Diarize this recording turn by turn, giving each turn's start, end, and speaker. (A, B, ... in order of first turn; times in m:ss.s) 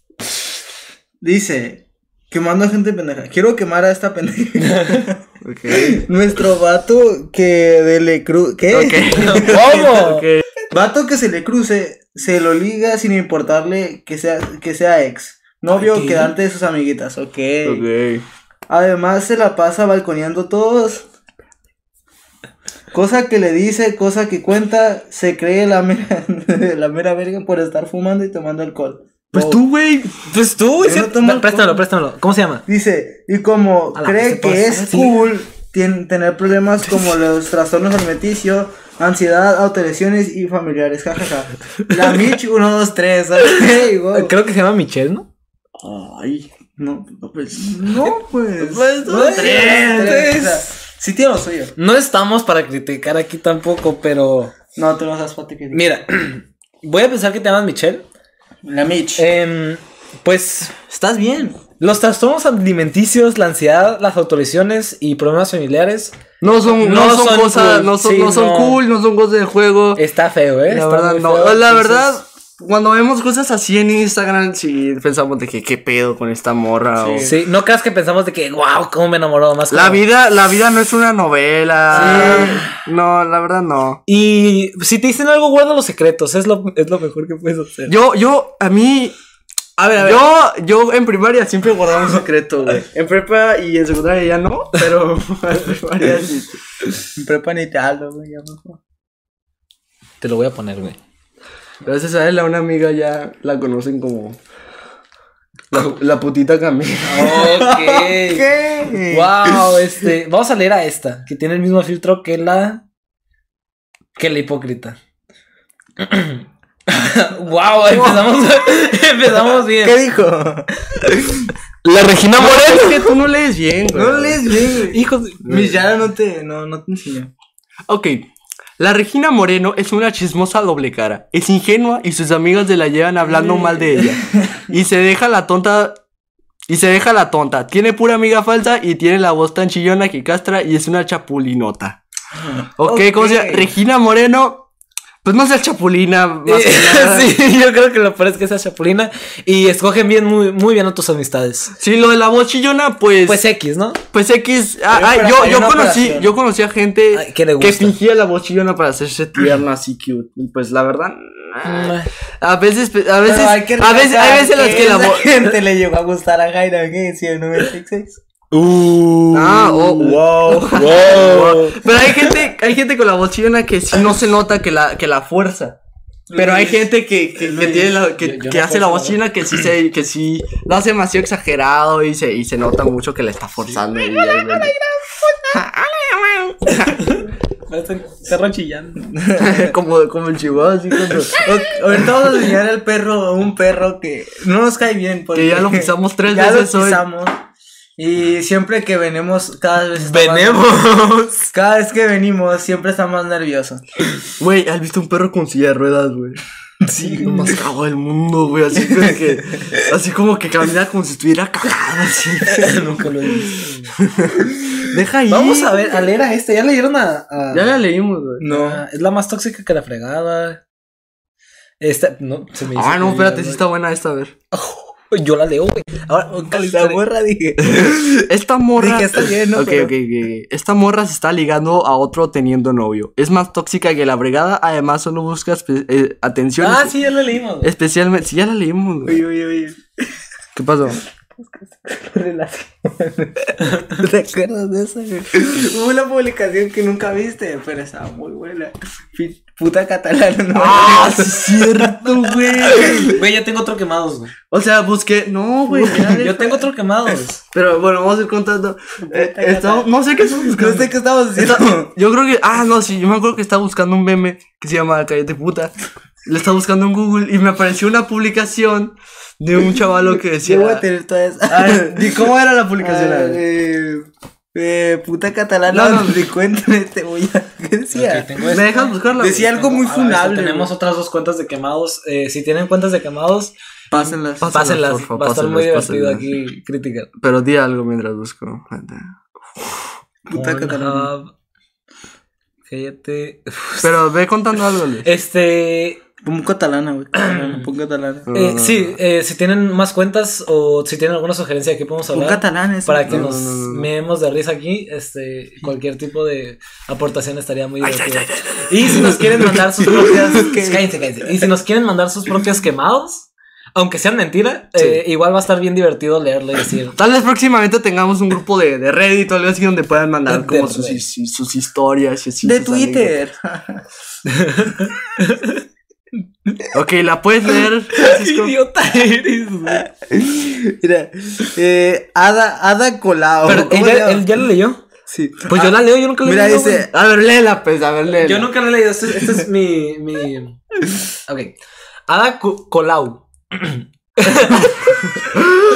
0:01.2-0:09.7 A
0:04.6-0:05.1 B
0:05.4-0:06.1 C
0:08.7-0:10.4 C
0:09.1-0:10.3 B
0:10.7-0:17.9 A
0:15.7-0:16.3 B
0:17.6-0:18.2 C
0:18.7-0:21.0 A
0:22.9-0:29.6 A
0:29.3-0:30.1 C
0:30.2-0:32.6 B
0:30.8-0:31.8 A
0:32.7-0:44.3 A
0:33.9-0:35.2 B
0:43.5-0:45.3 B
0:45.8-0:46.5 C
0:46.8-0:51.7 A
0:48.6-0:49.8 C
0:49.0-0:50.7 B
0:51.8-0:54.5 B
0:54.7-0:55.8 A
0:55.7-0:58.0 B
0:58.6-0:59.2 A
0:59.2-1:00.7 B
1:00.8-1:01.6 A
1:01.8-1:06.2 B
1:06.4-1:10.0 C
1:06.8-1:08.8 B
1:10.0-1:12.1 B
1:10.7-1:17.3 C
1:17.0-1:17.3 A
1:17.2-1:20.0 B
1:19.7-1:24.0 C
1:21.9-1:22.6 B
1:21.9-1:22.7 A
1:24.1-1:27.9 B
1:27.8-1:29.2 C
1:29.8-1:36.6 C
1:37.2-1:38.8 A
1:40.2-1:41.0 B
1:41.8-1:44.4 C
1:45.7-1:47.4 C
1:47.0-1:48.4 B
1:47.3-1:49.6 A
1:49.1-1:52.8 B
1:54.2-1:55.0 B
1:56.0-2:00.0 B
1:57.9-1:58.2 A
1:59.5-2:01.5 A
2:01.8-2:03.1 B
2:02.4-2:04.4 C
2:03.9-2:07.3 A
2:04.9-2:05.5 B
2:07.9-2:16.0 C
2:13.3-2:14.6 A
2:16.7-2:22.0 C
2:22.4-2:23.7 A
2:22.8-2:24.7 C
2:25.2-2:27.4 C
2:26.4-2:31.7 B
2:31.8-2:33.4 C
2:33.2-2:34.0 B
2:34.1-2:45.4 C
2:34.9-2:36.3 A
2:37.1-2:38.0 B
2:41.6-2:42.1 B
2:43.2-2:48.2 A
2:48.5-2:52.2 B
2:49.3-2:55.8 C
2:49.9-2:51.1 A
2:56.3-2:56.8 A
2:56.3-3:04.7 C
2:57.4-2:57.9 A
2:58.2-2:59.2 B
3:04.2-3:05.5 A
3:05.5-3:06.9 C
3:07.0-3:09.0 B
3:09.1-3:09.7 A
3:09.4-3:11.4 C
3:11.4-3:17.4 A
3:15.3-3:17.0 C
3:18.0-3:20.8 A
3:20.0-3:21.5 B
3:21.5-3:23.8 A
3:24.4-3:26.4 C
3:26.9-3:27.6 B
3:26.9-3:27.4 A
3:27.4-3:32.8 C
3:28.8-3:29.3 A
3:32.5-3:33.9 B
3:34.1-3:35.0 C
3:34.9-3:35.9 A
3:35.3-3:37.7 B
3:37.5-3:38.4 C
3:38.4-3:38.8 A
3:38.4-3:40.6 B
3:41.8-3:43.6 B
3:42.7-3:44.3 C
3:44.5-3:47.0 B
3:46.4-3:48.2 A
3:47.6-3:57.0 C
3:48.8-3:49.9 A
3:56.6-3:57.7 B
3:57.6-3:59.2 C
3:59.0-3:59.8 A
4:00.5-4:01.0 C
4:01.4-4:13.1 A
4:03.6-4:04.0 B
4:10.5-4:13.1 C
4:13.0-4:14.3 B
4:14.5-4:16.4 C
4:15.7-4:16.6 A
4:16.0-4:17.4 B
4:17.5-4:25.7 C
4:19.0-4:19.9 A
4:20.5-4:21.9 A
4:26.2-4:30.8 C
4:30.4-4:38.3 A
4:31.5-4:33.4 C
4:35.7-4:36.2 C
4:37.9-4:43.5 B
4:38.5-4:39.5 C
4:39.2-4:40.7 A
4:43.9-4:44.5 A
4:43.9-4:46.3 C
4:44.5-4:47.1 B
4:47.2-4:49.8 C
4:50.3-4:51.1 A
4:50.3-4:51.3 B
4:52.7-4:53.9 B
4:53.8-4:55.1 C
4:55.0-4:56.0 B
4:56.2-4:58.3 A
4:57.2-4:57.7 B
4:58.3-4:59.0 C
4:58.3-5:17.0 B
5:02.1-5:03.3 A
5:03.1-5:03.9 C
5:07.8-5:09.2 C
5:09.8-5:10.9 A
5:14.7-5:15.0 C
5:17.0-5:23.1 C
5:20.3-5:21.0 B
5:22.4-5:23.8 A
5:24.2-5:25.6 B
5:26.7-5:28.5 C
5:27.9-5:29.8 B
5:29.8-5:34.2 A
5:33.4-5:34.8 B
5:35.1-5:36.9 A
5:35.5-5:36.8 B
5:36.9-5:38.5 C
5:38.2-5:40.6 B
5:41.3-5:41.5 B
5:42.1-5:45.0 B